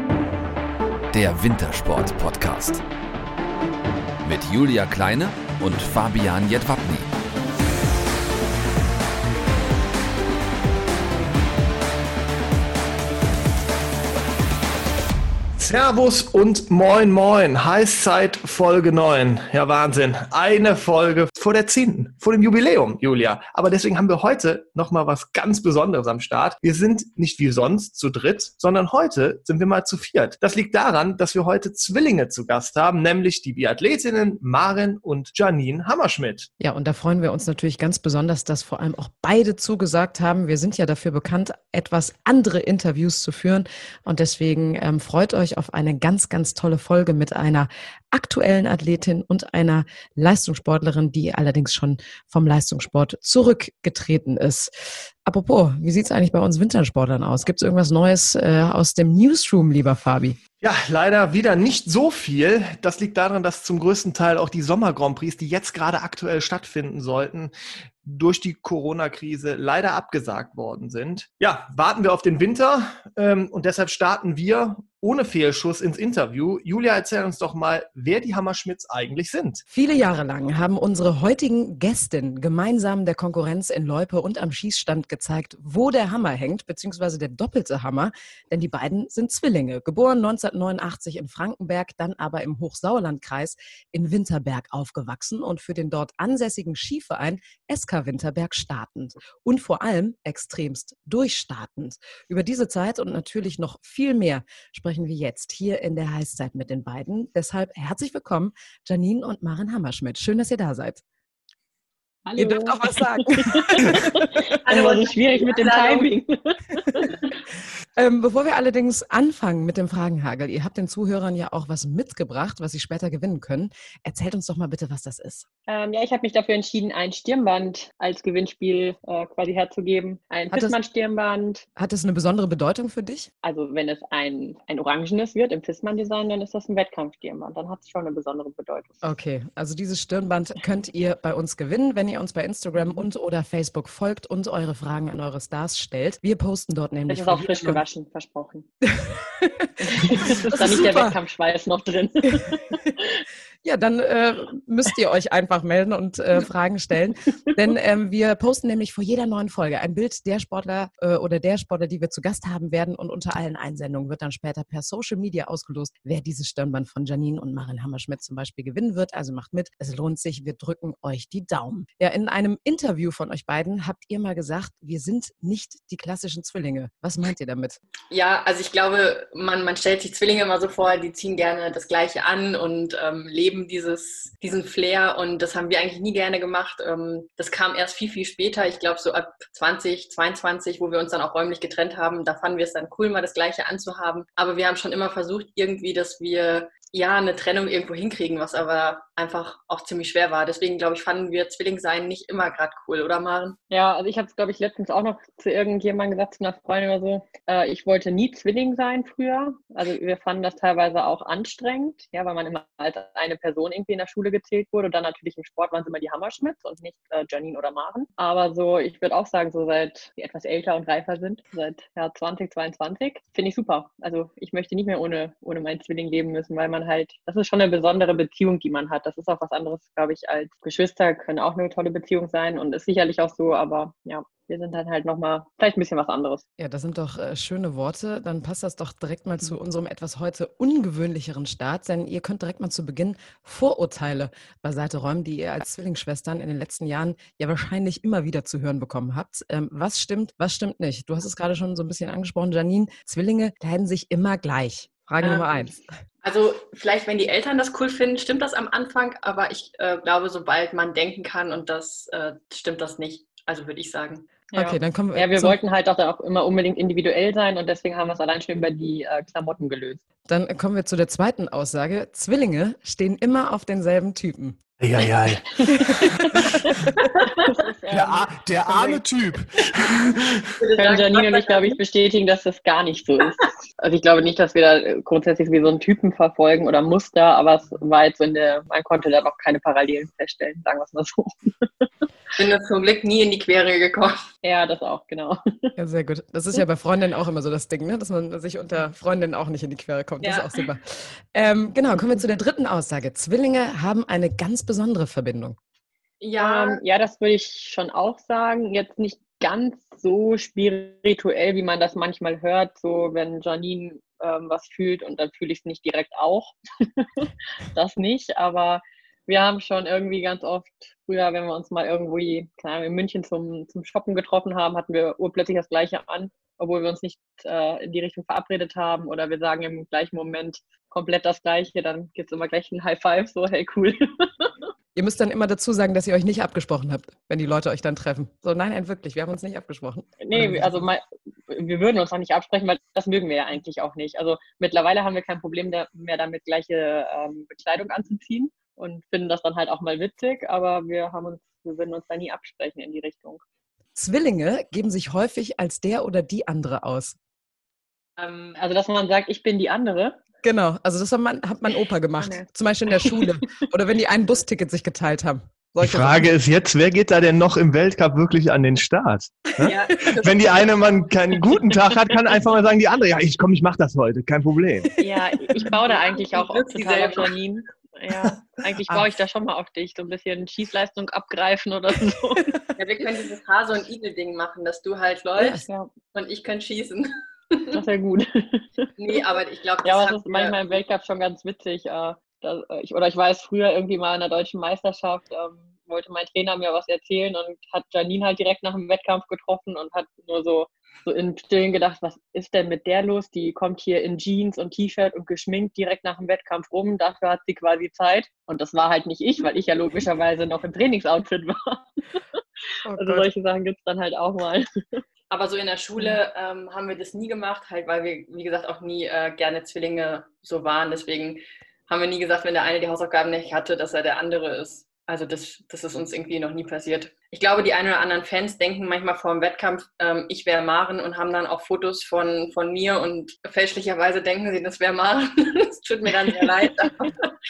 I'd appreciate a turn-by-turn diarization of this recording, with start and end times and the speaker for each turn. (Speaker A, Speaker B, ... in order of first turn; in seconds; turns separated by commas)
Speaker A: 1.1-2.8, Speaker A: 4.2-7.1, Speaker B: 15.6-36.5, Speaker C: 36.6-60.4, Speaker B: 60.6-79.6, Speaker C: 79.7-111.0, Speaker D: 112.2-117.1, Speaker C: 112.4-114.6, Speaker E: 114.6-116.1, Speaker C: 118.0-125.5, Speaker D: 125.7-131.7, Speaker C: 131.8-133.3, Speaker D: 133.4-139.0, Speaker C: 139.0-147.8, Speaker D: 147.1-148.7, Speaker C: 148.8-151.2, Speaker D: 149.8-153.2, Speaker C: 153.6-177.8, Speaker E: 178.1-203.6, Speaker D: 203.7-236.4, Speaker C: 236.6-255.8, Speaker E: 255.2-255.7, Speaker E: 256.2-264.4, Speaker C: 264.5-265.6, Speaker D: 264.5-270.0, Speaker C: 270.3-274.6, Speaker B: 274.8-276.4, Speaker C: 275.7-276.2, Speaker D: 275.8-276.8, Speaker D: 277.4-279.0, Speaker B: 277.9-280.4, Speaker E: 280.6-281.8, Speaker D: 280.8-291.9, Speaker E: 292.3-294.2, Speaker D: 294.4-295.7, Speaker C: 295.8-305.6, Speaker E: 300.2-300.6, Speaker E: 306.2-306.8, Speaker D: 306.4-334.5, Speaker C: 334.9-340.8, Speaker D: 340.2-353.4, Speaker C: 353.9-357.2, Speaker E: 358.2-358.6, Speaker D: 358.5-360.2, Speaker C: 360.4-366.3, Speaker D: 362.2-362.4, Speaker B: 365.8-374.9, Speaker E: 369.6-370.9, Speaker D: 375.0-382.5, Speaker E: 375.6-377.3, Speaker E: 382.8-387.8, Speaker C: 385.4-385.6, Speaker D: 387.7-389.2, Speaker E: 389.0-390.6, Speaker D: 389.8-412.4, Speaker C: 412.9-413.3, Speaker D: 412.9-415.0, Speaker E: 415.3-437.2